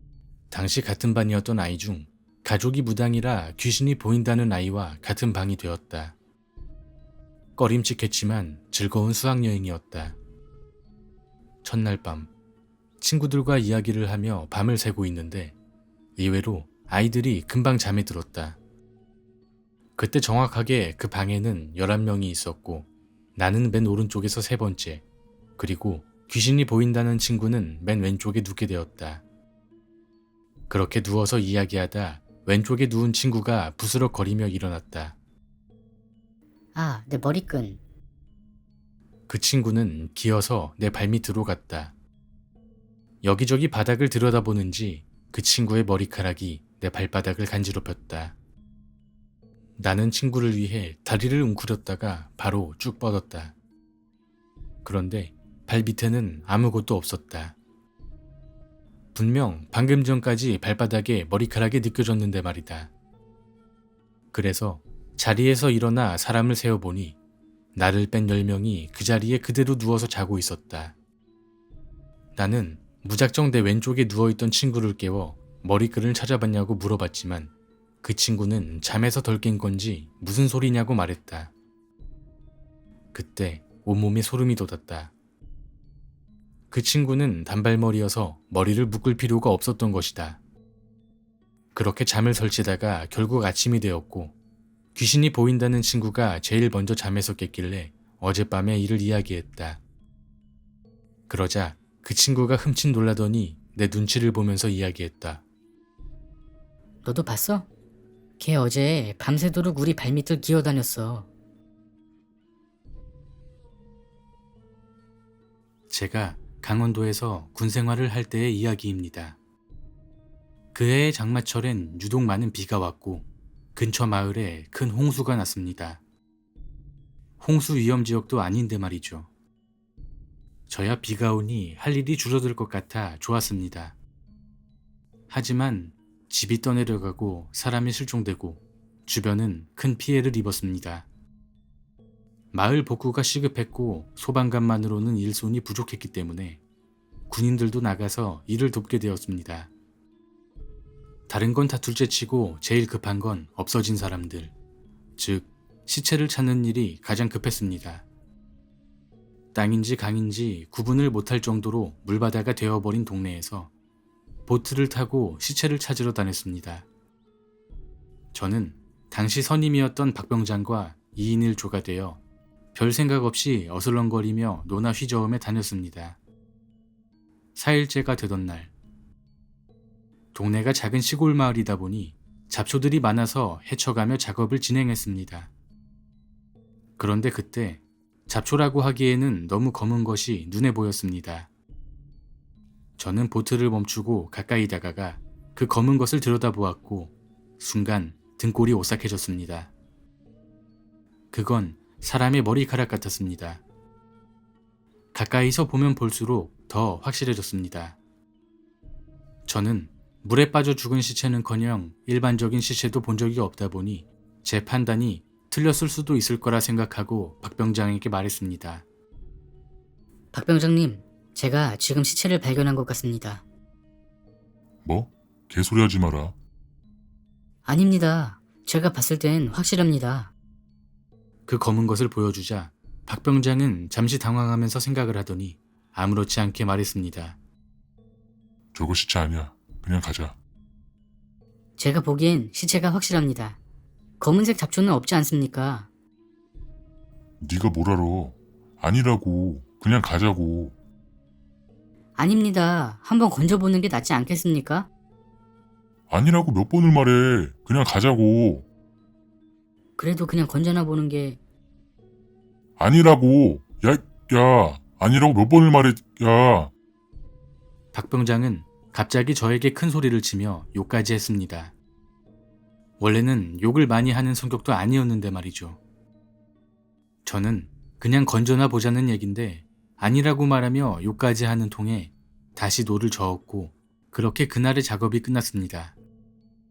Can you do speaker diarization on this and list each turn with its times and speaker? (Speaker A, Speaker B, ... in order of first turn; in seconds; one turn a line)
Speaker A: 0.5-6.2
Speaker A: 7.6-10.2
Speaker A: 11.6-12.3
Speaker A: 13.0-15.5
Speaker A: 16.1-18.6
Speaker A: 20.0-25.0
Speaker A: 25.6-29.2
Speaker A: 30.7-35.2
Speaker B: 36.8-37.8
Speaker A: 39.3-41.9
Speaker A: 43.2-48.4
Speaker A: 49.8-53.5
Speaker A: 54.8-57.5
Speaker A: 59.1-62.9
Speaker A: 64.3-67.2
Speaker A: 67.7-70.9
Speaker A: 72.3-81.5
Speaker A: 83.1-85.1
Speaker A: 86.7-90.4
Speaker A: 91.7-94.3
Speaker A: 94.9-99.8
Speaker A: 101.3-105.4
Speaker B: 107.0-107.7
Speaker B: 108.4-111.3
Speaker A: 115.9-119.4
Speaker A: 120.7-126.0
Speaker A: 127.4-129.3
Speaker A: 130.7-133.9
Speaker A: 135.3-141.1
Speaker A: 142.5-146.6
Speaker A: 147.3-149.7
Speaker A: 151.3-154.5
Speaker A: 155.2-158.0
Speaker A: 159.5-163.7
Speaker A: 164.4-166.8
Speaker A: 168.3-172.2
Speaker A: 172.7-176.2
Speaker A: 177.5-178.7
Speaker A: 180.3-185.5
Speaker A: 187.0-191.5
Speaker A: 193.0-199.7
Speaker A: 201.3-203.6
Speaker A: 205.1-208.0
Speaker A: 209.4-218.8
Speaker B: 220.3-223.4
Speaker C: 224.8-226.3
Speaker B: 227.7-230.3
Speaker A: 231.5-237.4
Speaker C: 238.7-240.4
Speaker B: 241.8-243.6
Speaker B: 244.2-245.9
Speaker C: 247.4-250.8
Speaker B: 252.2-254.9
Speaker C: 256.1-258.7
Speaker B: 260.0-261.4
Speaker C: 262.8-266.7
Speaker A: 267.9-271.7
Speaker A: 273.0-275.8
Speaker A: 277.2-286.0